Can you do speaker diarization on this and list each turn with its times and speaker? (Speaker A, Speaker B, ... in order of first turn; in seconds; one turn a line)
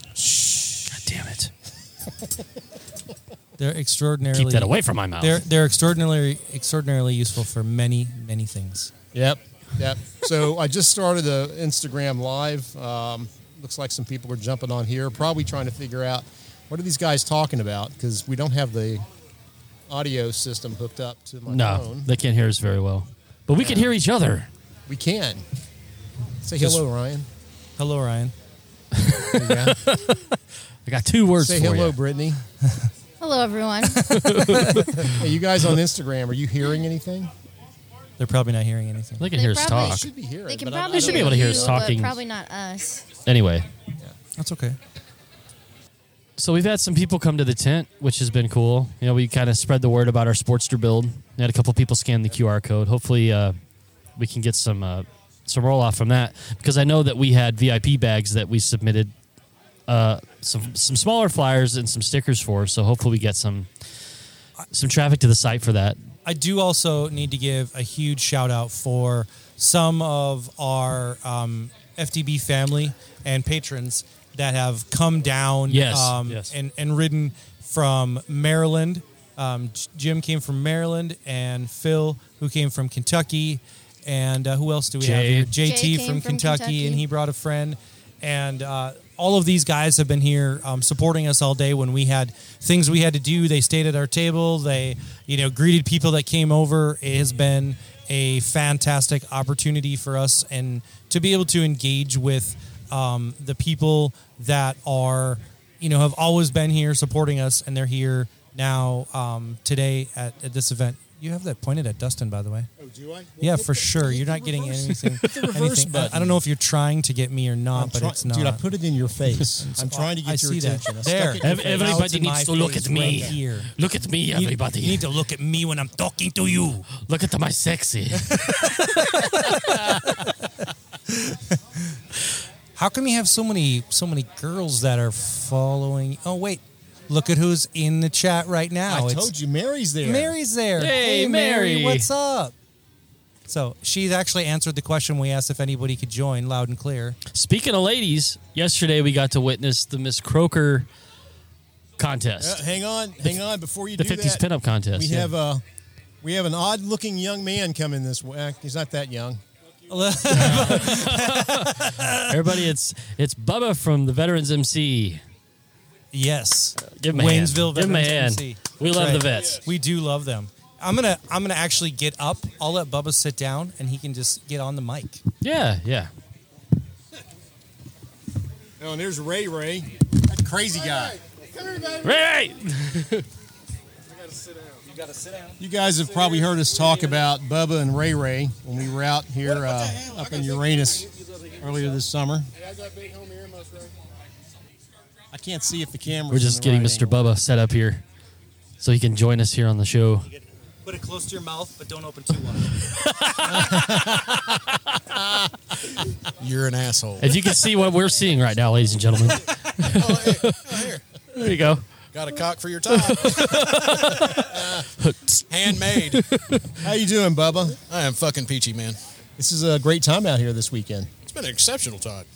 Speaker A: 0.1-1.1
Speaker B: 0.9-1.5
Speaker C: 3.6-8.9
Speaker B: 4.3-5.4
Speaker A: 9.1-19.1
Speaker A: 19.9-22.1
Speaker B: 21.5-24.5
Speaker A: 23.6-23.9
Speaker A: 24.9-25.4
Speaker A: 26.4-27.3
Speaker C: 27.8-28.3
Speaker B: 28.9-30.3
Speaker A: 29.3-29.8
Speaker B: 30.9-31.9
Speaker A: 31.4-32.4
Speaker D: 33.2-34.2
Speaker B: 34.0-35.1
Speaker C: 34.1-35.1
Speaker A: 35.0-37.3
Speaker C: 38.2-39.3
Speaker B: 39.2-40.1
Speaker D: 39.3-43.1
Speaker A: 39.6-42.1
Speaker B: 40.9-42.1
Speaker B: 43.3-43.7
Speaker C: 44.0-44.8
Speaker B: 46.4-53.6
Speaker B: 54.2-59.1
Speaker B: 59.9-63.7
Speaker B: 64.7-66.0
Speaker C: 66.3-112.7
Speaker B: 75.7-76.5
Speaker B: 85.0-85.5
Speaker D: 85.6-87.0
Speaker A: 112.8-116.4
Speaker C: 113.4-118.6
Speaker A: 117.7-122.1
Speaker C: 119.6-123.7
Speaker B: 121.4-125.1
Speaker C: 124.3-126.9
Speaker B: 127.0-130.3
Speaker C: 128.3-130.2
Speaker C: 131.1-132.0
Speaker C: 132.8-139.3
Speaker A: 138.9-140.4
Speaker C: 140.0-142.5
Speaker B: 140.8-142.1
Speaker C: 143.5-147.2
Speaker B: 147.3-150.9
Speaker B: 152.0-152.6
Speaker A: 152.4-155.6
Speaker B: 154.0-155.3
Speaker A: 156.2-159.4
Speaker C: 159.9-162.7
Speaker B: 160.3-165.2
Speaker C: 166.1-175.2
Speaker B: 166.8-169.6
Speaker B: 175.4-176.1
Speaker A: 178.8-181.2
Speaker E: 181.2-182.1
Speaker B: 182.0-183.3
Speaker E: 184.1-185.6
Speaker A: 185.6-192.5
Speaker E: 186.2-186.9
Speaker E: 189.6-191.6
Speaker E: 192.6-193.9
Speaker A: 195.3-197.3
Speaker B: 196.3-198.0
Speaker B: 198.8-200.3
Speaker C: 200.3-202.8
Speaker B: 202.8-205.0
Speaker A: 203.5-204.5
Speaker A: 205.1-205.5
Speaker E: 206.4-207.4
Speaker B: 207.2-211.8
Speaker E: 209.9-211.0
Speaker E: 212.1-214.0
Speaker B: 212.9-216.8
Speaker A: 214.3-214.9
Speaker E: 215.5-216.2
Speaker A: 216.8-217.8
Speaker E: 217.9-219.0
Speaker A: 219.4-221.1
Speaker E: 221.3-222.3